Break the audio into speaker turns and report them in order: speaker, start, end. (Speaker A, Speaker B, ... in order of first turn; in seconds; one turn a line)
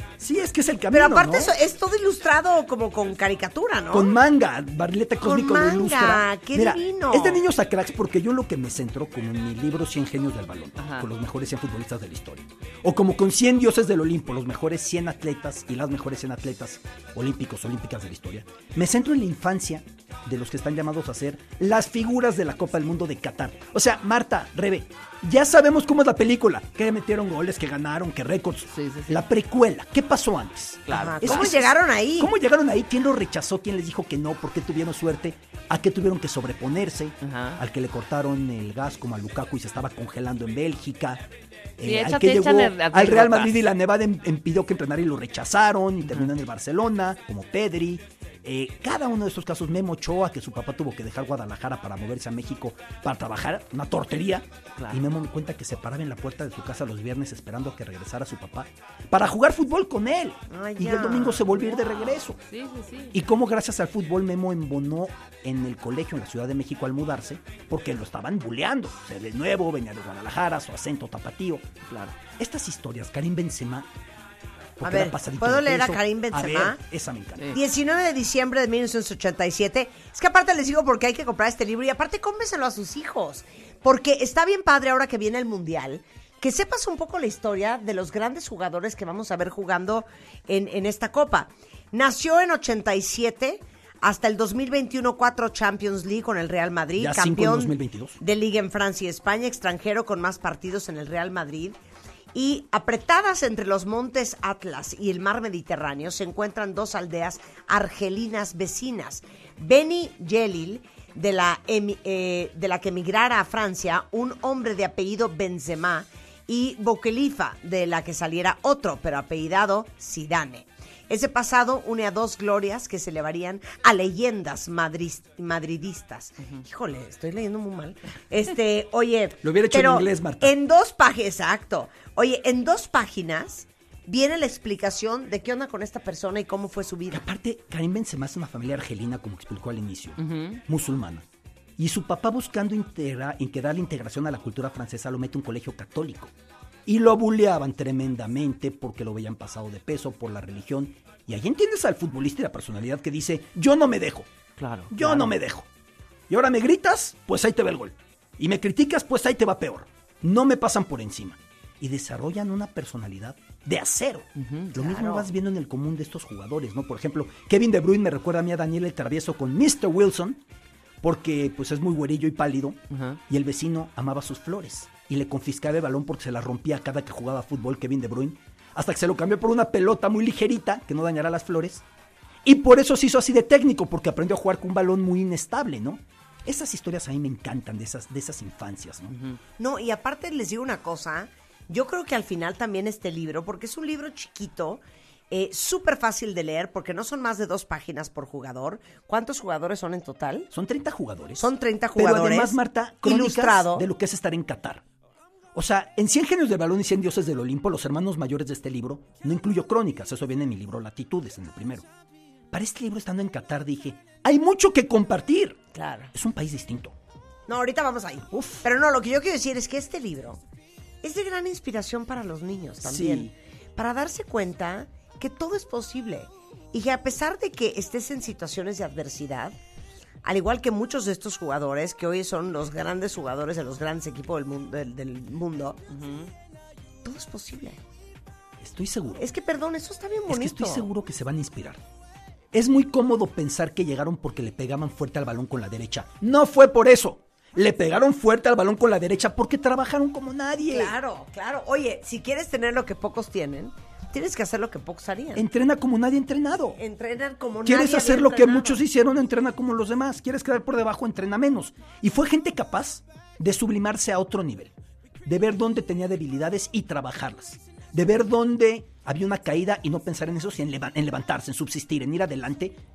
Speaker A: 0.2-1.5
Speaker B: 0.9-4.2
Speaker A: 3.9-41.2
Speaker B: 5.2-7.4
Speaker C: 10.8-11.1
Speaker C: 28.7-29.2
Speaker C: 30.9-31.4
Speaker B: 30.9-32.3
Speaker C: 37.2-37.6
Speaker A: 41.8-62.4
Speaker C: 41.8-43.5
Speaker C: 54.8-55.0
Speaker B: 60.5-61.5
Speaker C: 61.8-63.2
Speaker A: 63.1-71.6
Speaker C: 71.9-72.2
Speaker A: 72.3-73.9
Speaker A: 74.8-77.5
Speaker B: 74.8-76.8
Speaker B: 77.5-101.8
Speaker A: 97.0-98.2
Speaker B: 102.3-137.2
Speaker A: 129.4-130.5
Speaker A: 137.1-141.2
Speaker C: 140.2-140.6
Speaker A: 141.8-146.3
Speaker A: 146.8-154.3
Speaker C: 154.6-155.3
Speaker A: 154.9-155.7
Speaker A: 156.3-170.4
Speaker C: 164.4-164.7
Speaker B: 164.8-165.3
Speaker A: 171.0-181.8
Speaker C: 172.9-173.2
Speaker A: 182.4-189.1
Speaker C: 189.1-189.4
Speaker B: 189.6-200.5
Speaker A: 200.5-204.8
Speaker B: 201.4-203.9
Speaker A: 205.5-211.8
Speaker A: 212.5-215.6
Speaker B: 215.7-216.1
Speaker A: 216.1-216.9
Speaker B: 217.5-220.4
Speaker A: 218.3-218.6
Speaker B: 221.0-229.6
Speaker A: 222.8-223.3
Speaker B: 230.2-235.8
Speaker C: 235.9-236.3
Speaker B: 237.0-237.8
Speaker A: 238.6-239.2
Speaker B: 239.2-240.9
Speaker A: 240.3-241.8
Speaker A: 242.5-250.9
Speaker B: 250.7-255.4
Speaker A: 255.3-256.8
Speaker B: 256.8-258.8
Speaker A: 257.6-264.7
Speaker A: 265.2-272.8